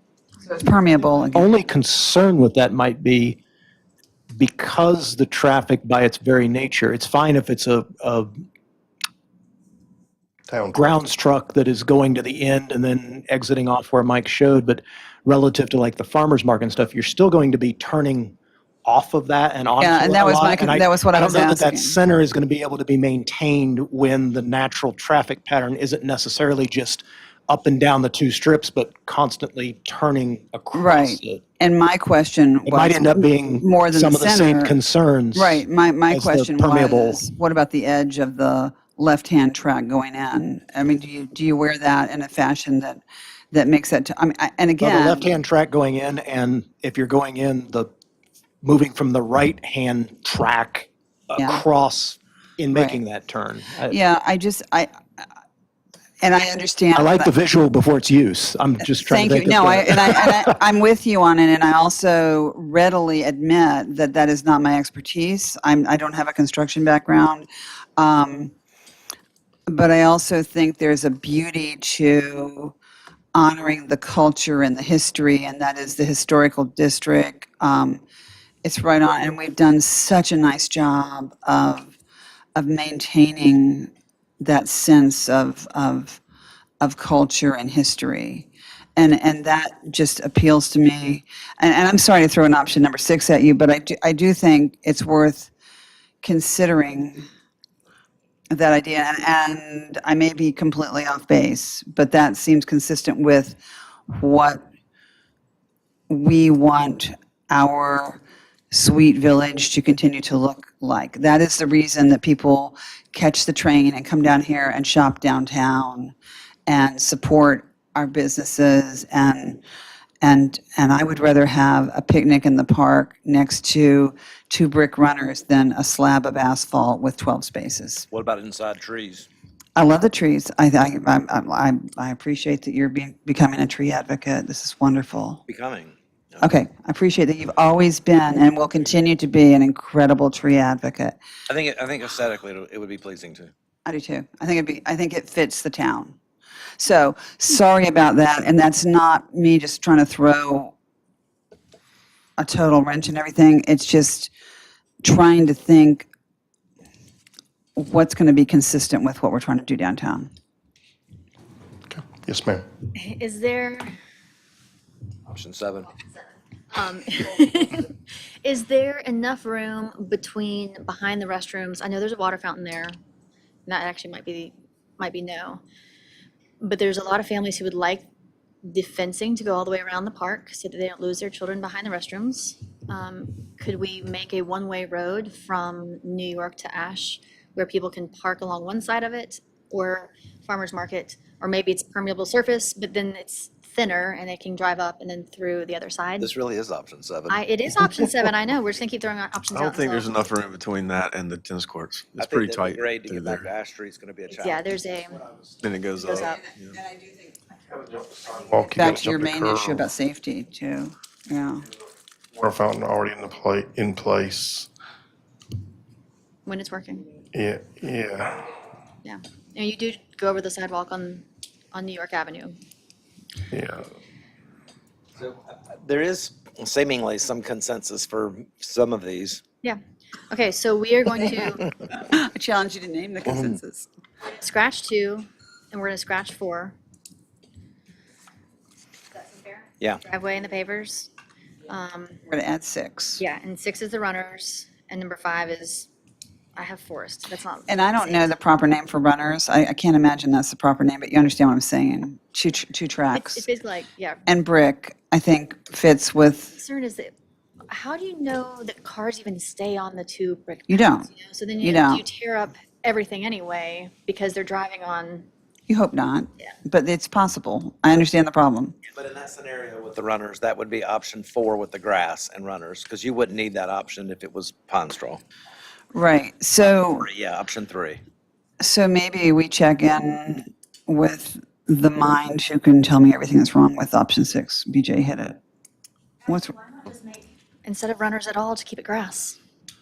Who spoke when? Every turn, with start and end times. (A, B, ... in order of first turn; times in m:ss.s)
0:00.4-0:01.5 A
0:01.3-0:03.4 B
0:04.4-0:08.4 B
0:10.5-0:10.9 C
0:10.7-0:31.4 B
0:19.8-0:22.0 A
0:30.7-0:34.8 A
0:32.7-0:37.2 B
0:35.4-0:45.3 A
0:44.8-0:47.9 B
0:48.6-0:54.0 B
0:51.4-0:51.6 A
0:52.7-0:53.0 A
0:53.9-0:55.3 A
0:56.2-0:57.3 A
0:57.0-1:00.5 B
0:59.0-1:08.5 A
1:09.7-1:12.8 A
1:13.3-1:18.0 A
1:18.6-1:21.9 A
1:22.6-1:26.2 A
1:26.8-1:35.5 A
1:36.2-1:37.3 A
1:38.5-1:44.6 A
1:46.1-1:48.2 A
1:48.7-1:56.2 A
1:56.7-1:59.6 A
2:00.2-2:08.1 A
2:08.1-2:09.3 D
2:09.8-2:15.4 A
2:15.5-2:16.4 D
2:16.4-2:21.2 A
2:21.5-2:23.5 D
2:23.8-2:26.2 A
2:26.8-2:30.7 A
2:32.4-2:34.3 A
2:35.0-2:36.1 A
2:37.8-2:40.3 A
2:41.9-2:42.7 C
2:43.0-2:44.0 E
2:45.3-2:45.9 D
2:46.7-2:47.9 E
2:48.4-2:52.9 E
2:53.7-2:55.6 E
2:56.6-2:58.1 E
2:58.6-3:16.3 E
3:16.2-3:17.5 D
3:17.3-3:20.4 E
3:19.5-3:23.5 F
3:22.2-3:24.7 D
3:24.3-3:25.2 E
3:25.6-3:26.8 F
3:26.0-3:27.4 A
3:27.8-3:29.9 C
3:28.7-3:31.7 A
3:32.3-3:34.7 C
3:36.5-3:37.1 E
3:37.3-3:38.4 C
3:39.0-3:42.6 E
3:43.5-3:43.8 C
3:45.2-3:49.4 D
3:50.3-3:51.7 E
3:52.0-3:53.9 A
3:54.2-3:56.8 E
3:59.1-4:01.1 E
4:01.7-4:02.2 E
4:02.3-4:03.2 A
4:03.2-4:05.9 E
4:06.6-4:08.4 E
4:07.7-4:13.4 A
4:13.1-4:14.2 E
4:14.3-4:16.6 A
4:16.5-4:17.1 E
4:17.7-4:25.3 E
4:20.7-4:21.1 A
4:21.6-4:22.0 A
4:25.7-4:28.8 A
4:28.9-4:35.2 D
4:35.9-4:37.1 A
4:36.7-4:38.0 D
4:38.6-4:45.4 A
4:46.3-4:46.5 A
4:46.4-4:49.4 E